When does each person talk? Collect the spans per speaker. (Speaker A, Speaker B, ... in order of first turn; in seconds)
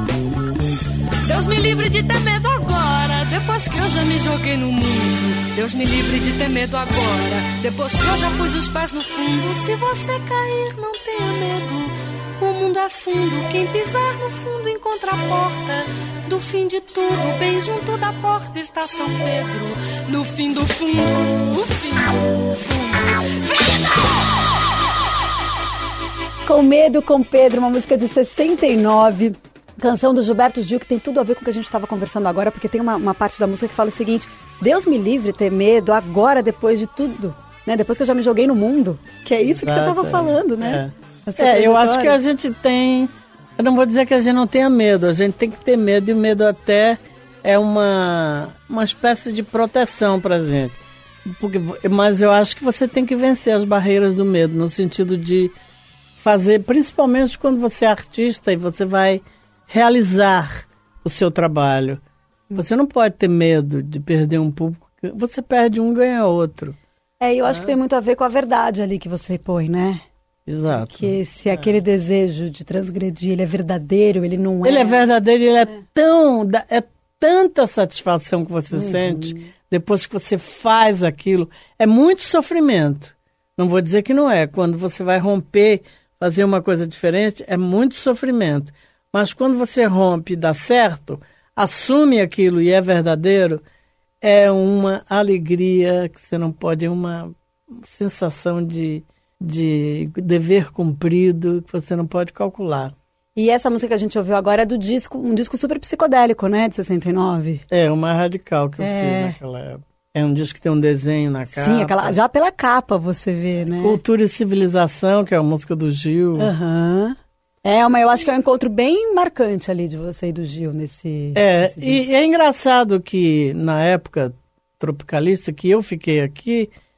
Speaker A: 1.2-24.2
Speaker B: 26.4-42.1, 67.2-70.0, 70.7-75.0, 78.7-79.5, 103.3-107.6, 108.8-109.3, 111.5-114.0, 116.4-122.0
Speaker C: 39.6-55.5, 56.2-62.0, 62.5-66.8, 70.5-71.7, 74.6-93.6, 94.2-97.3, 97.8-102.9, 107.7-112.1, 113.8-116.5, 121.3-126.7